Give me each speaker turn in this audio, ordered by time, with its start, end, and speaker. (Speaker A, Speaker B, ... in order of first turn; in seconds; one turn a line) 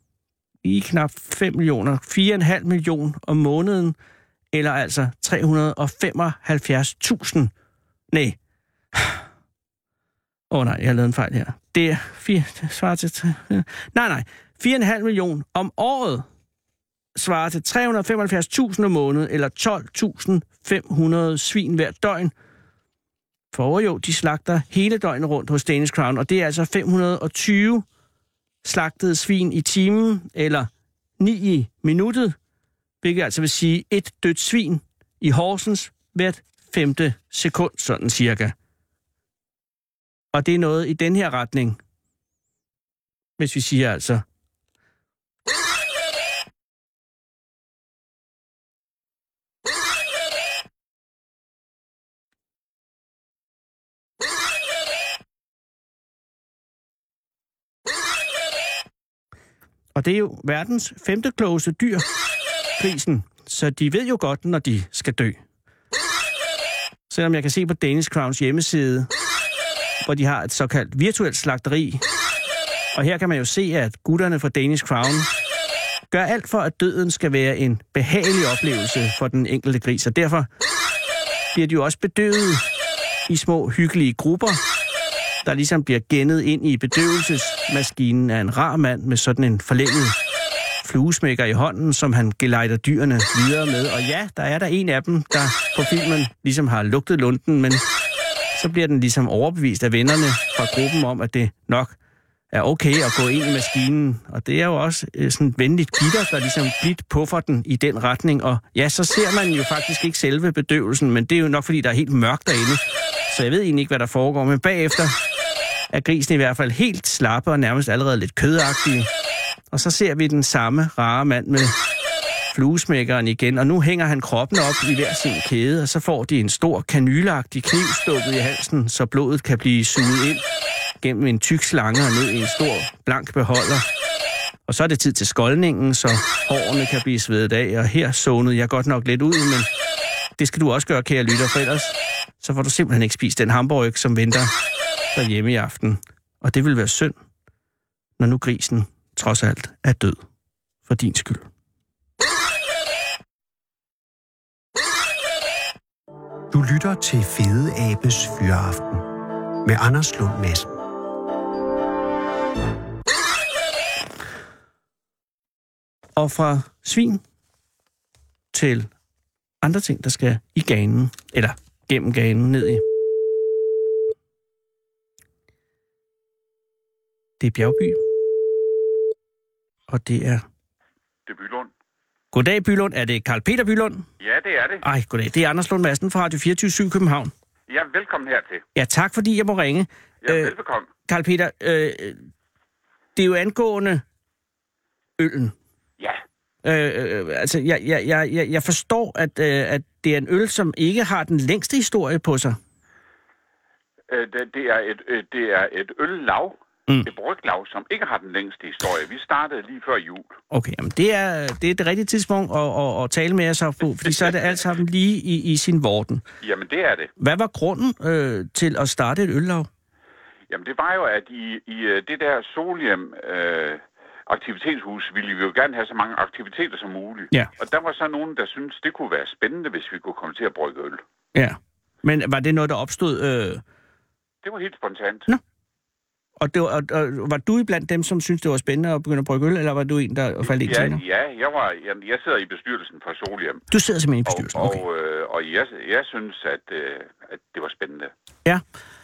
Speaker A: 0.6-4.0
Speaker A: 4.5-7.5
Speaker A: 8.1-8.4
Speaker A: 8.9-9.2
Speaker A: 10.5-16.3
Speaker A: 17.1-22.3
Speaker A: 23.5-27.8
Speaker A: 28.6-32.4
Speaker A: 33.0-38.5
Speaker A: 40.3-41.8
Speaker A: 43.4-44.2
Speaker A: 60.0-62.0
Speaker A: 62.8-65.4
Speaker A: 67.1-69.1
Speaker A: 70.0-72.0
Speaker A: 72.9-75.3
Speaker A: 76.1-80.5
Speaker A: 81.5-82.6
Speaker A: 83.3-84.6
Speaker A: 85.4-90.2
Speaker A: 90.8-97.8
Speaker A: 98.5-101.9
Speaker A: 102.5-115.2
Speaker A: 115.9-119.1
Speaker A: 119.7-121.8
Speaker A: 122.5-130.4
Speaker A: 131.0-133.8
Speaker A: 134.7-139.7
Speaker A: 140.4-144.5
Speaker A: 145.1-147.2
Speaker A: 148.2-150.2
Speaker A: 150.9-151.5
Speaker B: 156.5-159.1
Speaker B: 159.6-160.8
Speaker A: 166.2-167.2
Speaker A: 168.5-168.9
Speaker A: 169.6-172.8
Speaker A: 177.4-178.0
Speaker A: 179.9-180.4
Speaker C: 181.3-181.7
Speaker A: 182.3-184.1
Speaker C: 184.2-184.8
Speaker A: 184.8-187.3
Speaker C: 187.7-188.6
Speaker A: 188.8-190.5
Speaker C: 190.2-190.9
Speaker A: 191.1-192.2
Speaker A: 193.2-194.0
Speaker A: 195.2-195.5
Speaker A: 196.6-202.6
Speaker C: 204.1-210.4
Speaker A: 210.5-216.2
Speaker C: 216.4-217.1
Speaker A: 217.2-219.7
Speaker C: 220.5-231.0
Speaker A: 231.3-233.6
Speaker C: 234.4-235.3
Speaker A: 236.4-241.0
Speaker C: 240.4-243.6
Speaker A: 243.7-244.8
Speaker C: 244.3-248.1